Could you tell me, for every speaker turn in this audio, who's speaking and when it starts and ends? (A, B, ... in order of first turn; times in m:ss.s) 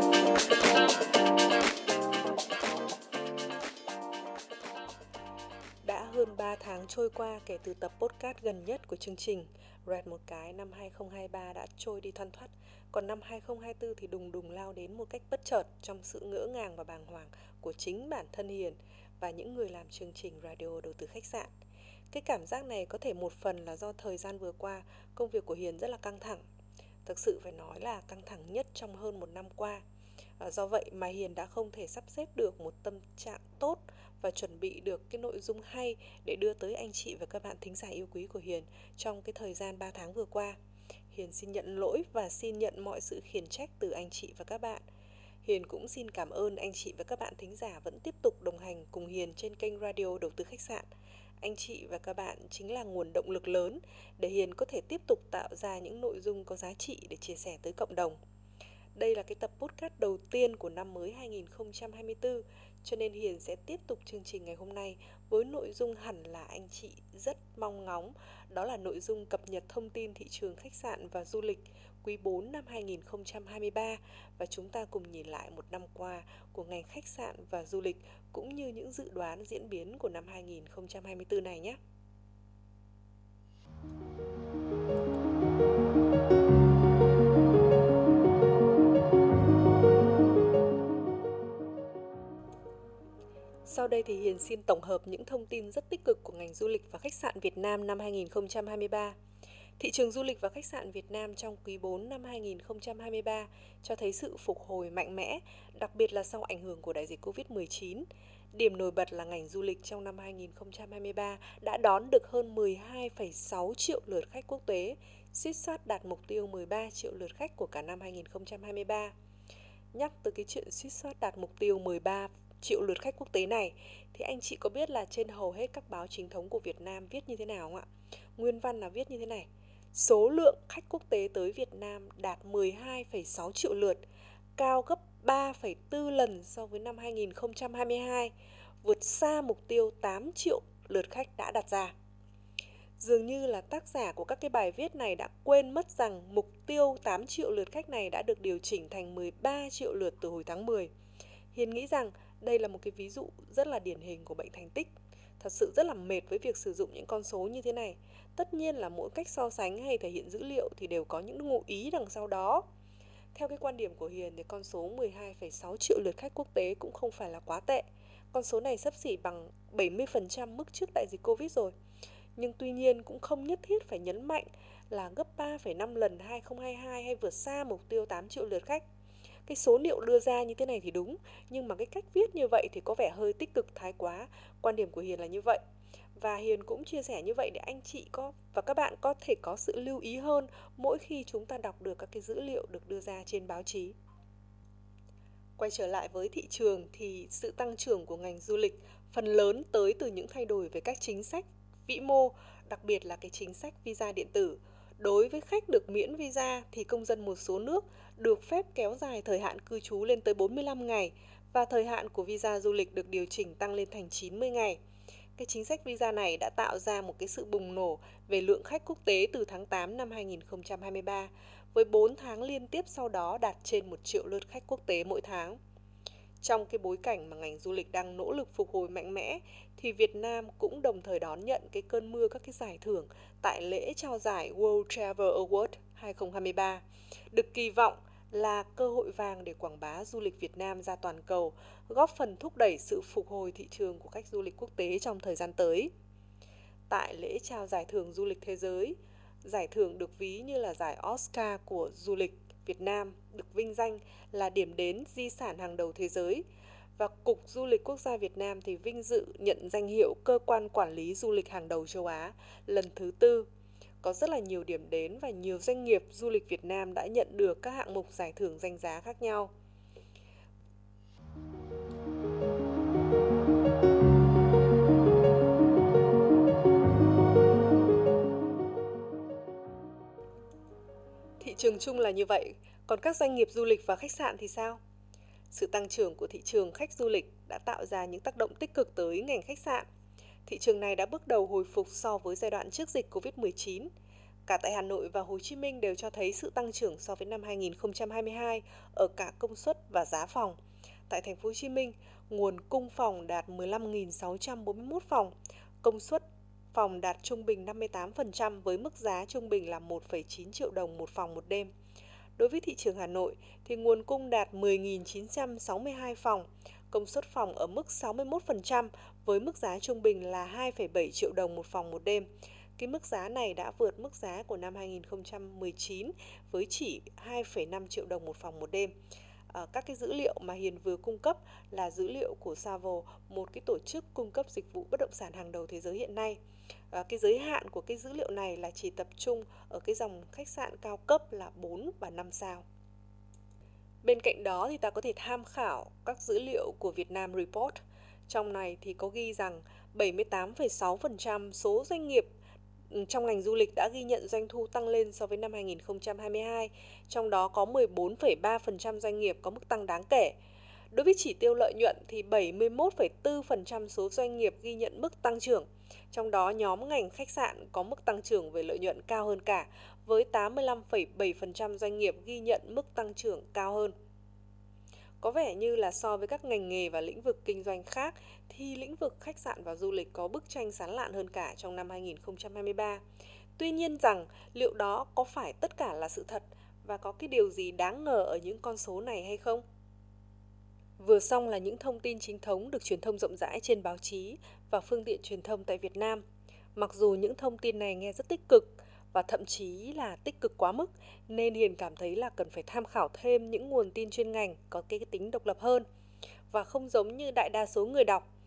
0:05.8-0:21.5 A
0:22.1-0:26.4 A
0:27.0-0:29.8 A
0:30.4-0:40.6 A
0:41.1-0:44.8 A
0:45.4-0:50.9 A
0:51.4-0:58.2 A
0:59.0-1:21.8 A
1:33.6-1:39.2 A
1:39.8-1:59.1 A
1:59.9-2:14.0 A
2:14.6-2:21.9 A
2:23.0-2:30.9 A
2:31.5-2:42.7 A
2:43.3-2:51.7 A
2:52.4-2:58.8 A
2:59.5-3:05.6 A
3:06.1-3:14.0 A
3:15.6-3:34.8 A
3:35.4-3:45.6 A
3:46.4-4:05.9 A
4:06.9-4:16.4 A
4:17.0-4:23.5 A
4:24.0-4:29.5 A
4:41.4-4:44.8 A
4:45.5-4:49.9 A
4:50.4-4:53.9 A
4:54.4-5:00.6 A
5:01.1-5:11.7 A
5:12.4-5:28.9 A
5:29.5-5:36.4 A
5:36.9-5:42.6 A
5:44.0-5:52.3 A
5:52.9-6:00.4 A
6:00.9-6:13.9 A
6:15.2-6:23.0 A
6:23.6-6:29.6 A
6:31.0-6:36.2 A
6:36.8-6:45.9 A
6:46.5-6:48.3 A